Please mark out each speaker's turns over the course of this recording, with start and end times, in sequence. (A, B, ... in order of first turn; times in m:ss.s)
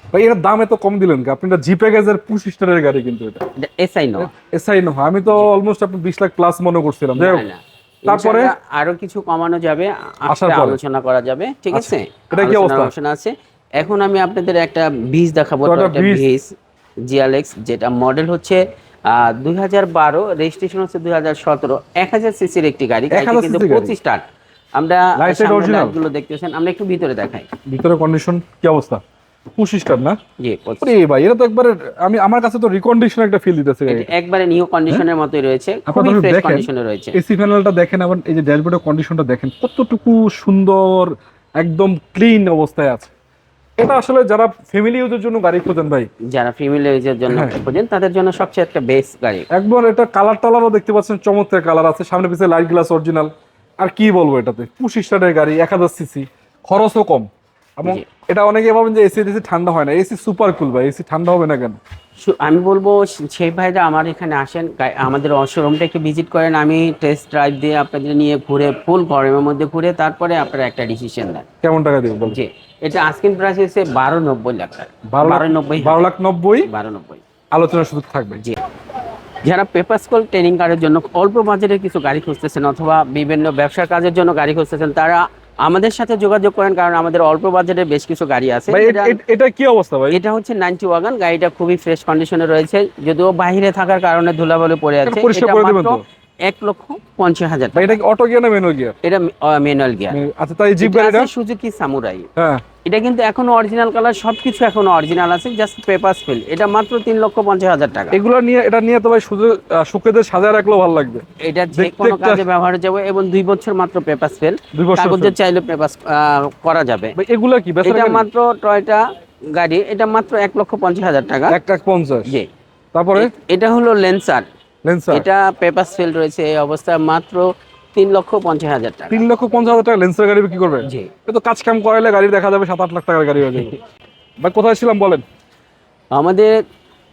0:00.1-0:03.4 A
0:03.6-0:04.3 B
0:04.2-0:07.5 A
0:07.2-0:16.5 B
0:08.1-0:08.5 A
0:10.3-0:10.8 A
0:11.7-0:12.9 A
0:15.6-0:16.3 A
0:17.1-0:24.2 B
0:23.1-0:24.0 A
0:24.8-0:27.5 B
0:25.2-0:26.0 A
0:27.7-0:29.0 A
0:29.6-0:30.2 A
0:30.4-0:30.9 B
0:30.8-0:34.1 A
0:33.9-0:37.2 B
0:35.9-0:43.1 A
0:43.8-0:46.1 A
0:46.3-0:49.5 B
0:47.3-0:47.6 A
0:49.5-0:57.3 A
0:57.8-1:01.8 A
1:02.2-1:11.4 B
1:11.6-1:12.4 A
1:12.3-1:16.1 B
1:15.1-1:16.7 A
1:16.6-1:17.2 B
1:17.5-1:18.4 A
1:19.4-1:29.2 B
1:28.7-1:30.2 A
1:30.1-1:38.0 B
1:35.0-1:36.0 A
1:37.8-1:39.0 A
1:39.0-1:40.2 B
1:40.1-1:41.3 A
1:40.8-1:42.3 B
1:42.4-1:42.6 A
1:42.8-1:48.2 B
1:48.1-1:51.2 A
1:51.4-1:57.2 B
1:51.7-1:52.5 A
1:54.7-1:55.4 A
1:57.2-1:58.3 A
1:57.8-2:01.6 B
2:01.5-2:02.3 A
2:02.9-2:03.3 A
2:03.2-2:04.5 B
2:04.8-2:05.3 A
2:05.1-2:09.2 B
2:09.1-2:13.7 A
2:10.9-2:11.1 B
2:14.4-2:15.2 A
2:16.1-2:16.6 B